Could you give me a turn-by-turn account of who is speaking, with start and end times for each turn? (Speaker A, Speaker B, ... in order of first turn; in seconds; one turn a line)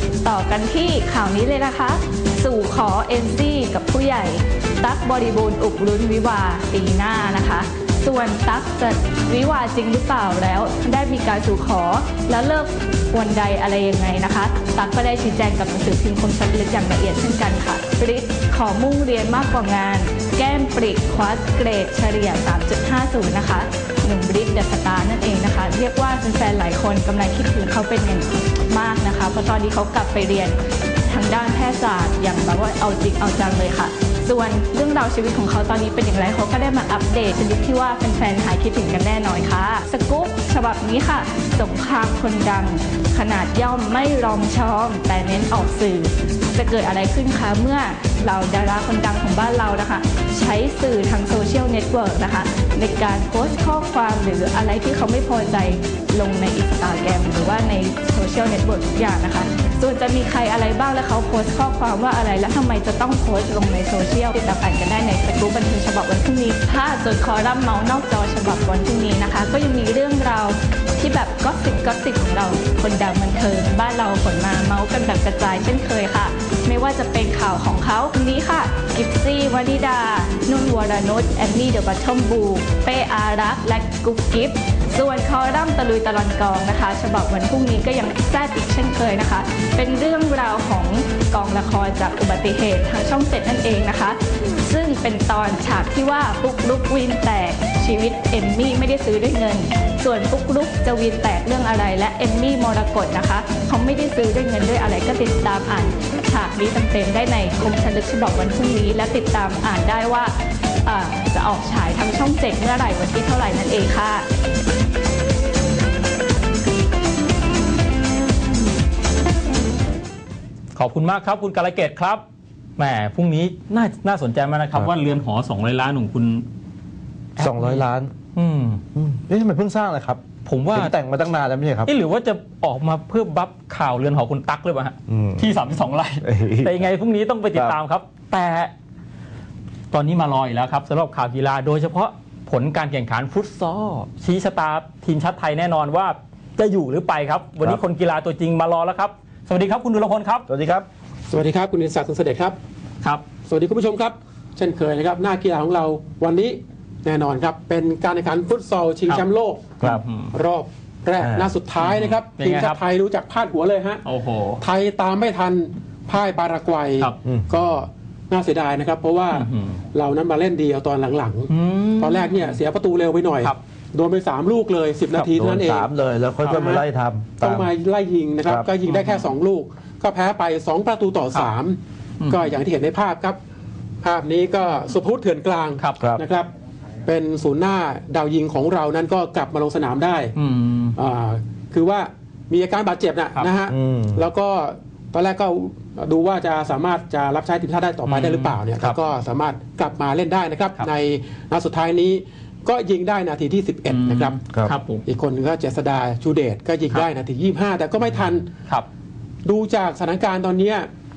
Speaker A: 0.2-110.3
Speaker A: 110.8-114.3
Speaker B: 120.8-122.2
Speaker B: 122.8-126.5
Speaker B: 127.4-127.8
Speaker C: 127.4-128.1
Speaker B: 128.3-128.8
Speaker C: 128.9-130.2
Speaker B: 130.4-130.9
Speaker C: 130.7-131.9
Speaker B: 131.9-138.7
Speaker C: 135.1-135.5
Speaker C: 136.2-136.9
Speaker B: 139.9-150.5
Speaker C: 150.5-150.9
Speaker D: 151.3-152.6
Speaker D: 153.4-159.8
Speaker B: 159.8-160.3
Speaker D: 160.3-164.0
Speaker C: 161.2-161.5
Speaker B: 161.8-162.8
Speaker B: 164.1-164.6
Speaker D: 164.6-175.9
Speaker C: 167.2-167.5
Speaker B: 169.3-169.8
Speaker B: 171.5-172.6
Speaker C: 175.2-177.7
Speaker D: 176.4-176.8
Speaker D: 177.4-183.4
Speaker B: 178.9-179.3
Speaker B: 182.2-182.5
Speaker D: 184.0-186.5
Speaker D: 187.1-190.3
Speaker B: 190.4-191.0
Speaker D: 191.0-204.4
Speaker C: 193.7-194.2
Speaker B: 198.1-199.0
Speaker B: 203.9-205.1
Speaker D: 205.1-208.5
Speaker D: 209.4-210.9